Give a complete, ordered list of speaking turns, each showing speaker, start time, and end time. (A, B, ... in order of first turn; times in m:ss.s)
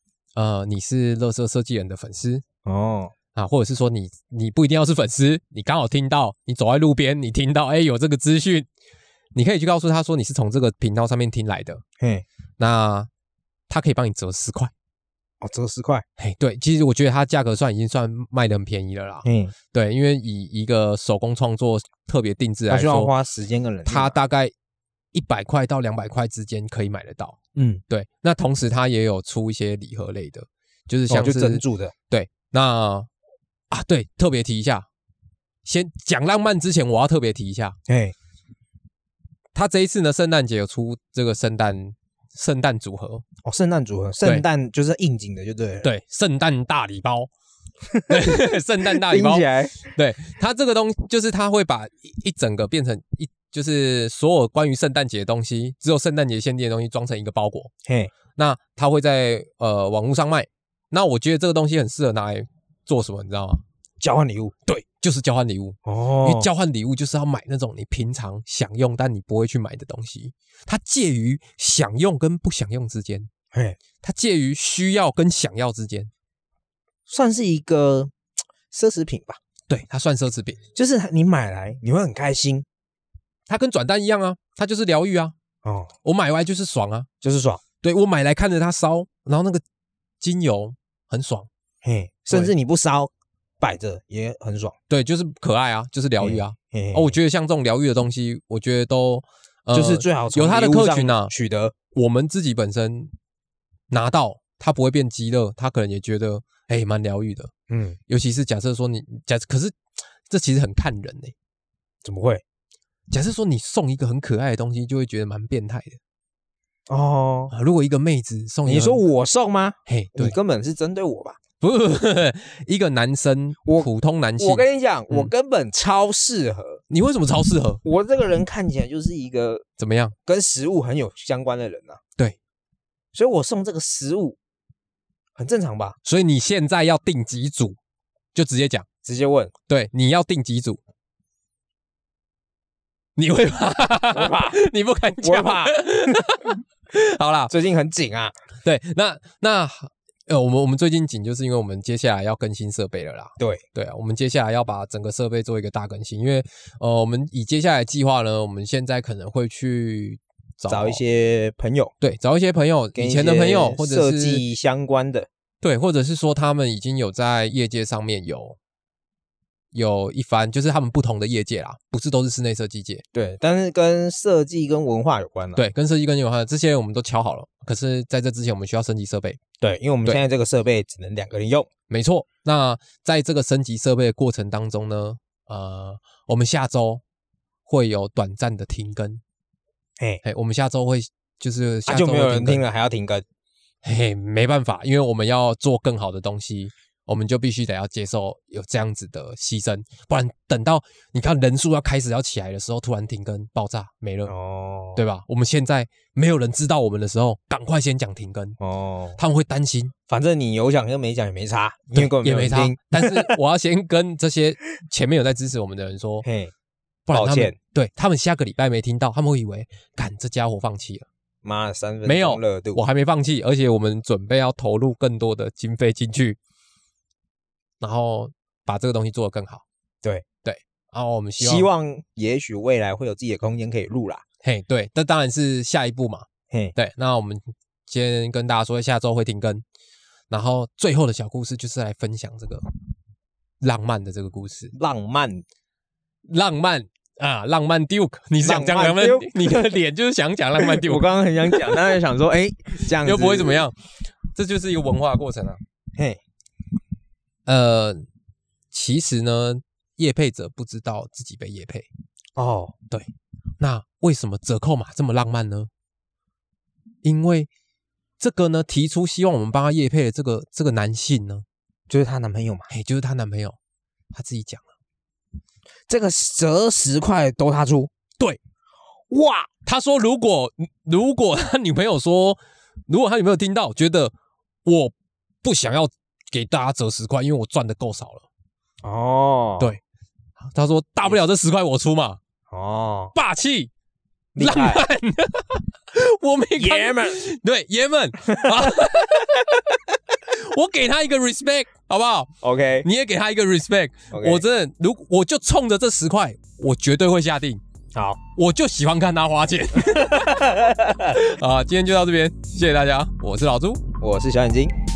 0:00.4-0:02.4 A
0:02.6-0:03.1 B
0:03.4-0:08.7 A
0:09.3-0:11.8 A
0:12.0-0:12.2 B
0:12.6-0:13.1 A
0:13.7-0:14.7 A
0:15.4-0:16.0 B
0:16.2-0:23.1 A
0:19.2-0:19.5 B
0:22.7-0:24.2 B
0:23.8-0:24.5 A
0:25.1-0:27.4 A
0:27.5-0:27.8 B
0:27.9-0:33.1 A
0:31.1-0:31.9 B
0:33.7-0:34.8 A
0:35.6-0:37.8 A
0:37.9-0:38.1 B
0:39.5-0:43.2 A
0:43.4-0:45.9 B
0:45.8-0:47.3 A
0:47.9-0:49.9 B
0:48.1-0:57.7 A
0:57.8-0:58.1 B
0:58.4-1:03.6 A
1:04.0-1:04.5 B
1:04.6-1:13.3 A
1:05.8-1:06.5 B
1:13.5-1:13.8 B
1:14.0-1:16.1 A
1:17.1-1:18.1 B
1:18.7-1:19.4 B
1:19.7-1:20.6 A
1:20.7-1:22.6 B
1:23.5-1:25.3 A
1:25.6-1:25.9 B
1:26.0-1:27.1 A
1:27.2-1:27.6 B
1:27.8-1:29.6 A
1:30.2-1:31.5 A
1:31.8-1:34.8 B
1:34.9-1:41.3 A
1:36.2-1:37.1 B
1:39.7-1:41.7 B
1:41.9-1:43.1 A
1:43.9-1:47.5 A
1:47.7-1:48.0 B
1:48.1-1:49.8 A
1:50.3-1:51.3 A
1:52.0-1:52.4 B
1:53.1-1:56.0 A
1:56.9-1:57.5 B
1:57.5-1:59.0 A
1:58.6-2:01.4 B
1:59.9-2:00.4 A
2:01.6-2:05.3 A
2:03.6-2:06.8 B
2:06.9-2:07.8 A
2:07.8-2:09.6 B
2:09.8-2:10.1 A
2:10.2-2:12.0 B
2:13.1-2:14.4 B
2:15.4-2:16.0 B
2:16.0-2:17.8 A
2:18.3-2:18.8 A
2:19.0-2:19.5 B
2:19.7-2:20.8 A
2:23.2-2:27.5 A
2:24.1-2:24.6 B
2:25.2-2:26.3 B
2:27.5-2:28.4 B
2:28.6-2:41.0 A
2:33.4-2:33.6 B
2:40.7-2:41.9 B
2:42.0-2:44.4 A
2:43.0-2:45.3 B
2:45.6-2:48.6 A
2:49.7-2:53.0 A
2:53.1-2:55.6 B
2:55.6-2:59.4 A
2:59.6-3:01.7 B
3:01.9-3:07.0 A
3:07.7-3:09.2 A
3:10.2-3:12.6 A
3:11.9-3:13.2 B
3:13.8-3:24.3 A
3:24.3-3:25.0 B
3:25.0-3:28.6 A
3:28.6-3:29.2 B
3:29.2-3:29.9 A
3:30.1-3:33.4 B
3:31.9-3:36.2 A
3:36.2-3:36.5 B
3:37.1-3:41.0 A
3:37.1-3:37.5 B
3:41.4-3:42.8 B
3:42.0-3:46.4 A
3:47.8-3:49.6 A
3:50.4-3:51.7 A
3:51.4-3:54.2 B
3:54.4-3:59.6 A
4:00.3-4:02.6 A
4:03.6-4:04.7 A
4:04.7-4:05.4 B
4:06.3-4:11.9 A
4:08.4-4:09.7 B
4:10.6-4:13.6 B
4:12.9-4:13.8 A
4:14.3-4:15.6 A
4:17.4-4:18.0 A
4:18.7-4:21.9 A
4:22.4-4:22.8 B
4:22.9-4:25.7 A
4:27.0-4:27.5 A
4:28.2-4:31.4 A
4:31.9-4:32.7 B
4:32.7-4:33.6 A
4:34.1-4:34.7 A
4:35.9-4:37.9 B
4:39.1-4:39.5 B
4:39.6-4:44.1 A
4:44.6-4:48.3 A
4:48.8-4:49.7 B
4:50.4-4:52.2 A
4:52.5-4:53.1 B
4:53.1-4:53.7 A
4:54.3-4:54.8 B
4:54.4-5:07.6 A
4:56.6-4:57.2 B
4:58.2-4:59.0 B
5:02.4-5:02.9 B
5:04.1-5:04.4 B
5:08.3-5:13.8 A
5:09.8-5:11.2 B
5:14.0-5:14.7 B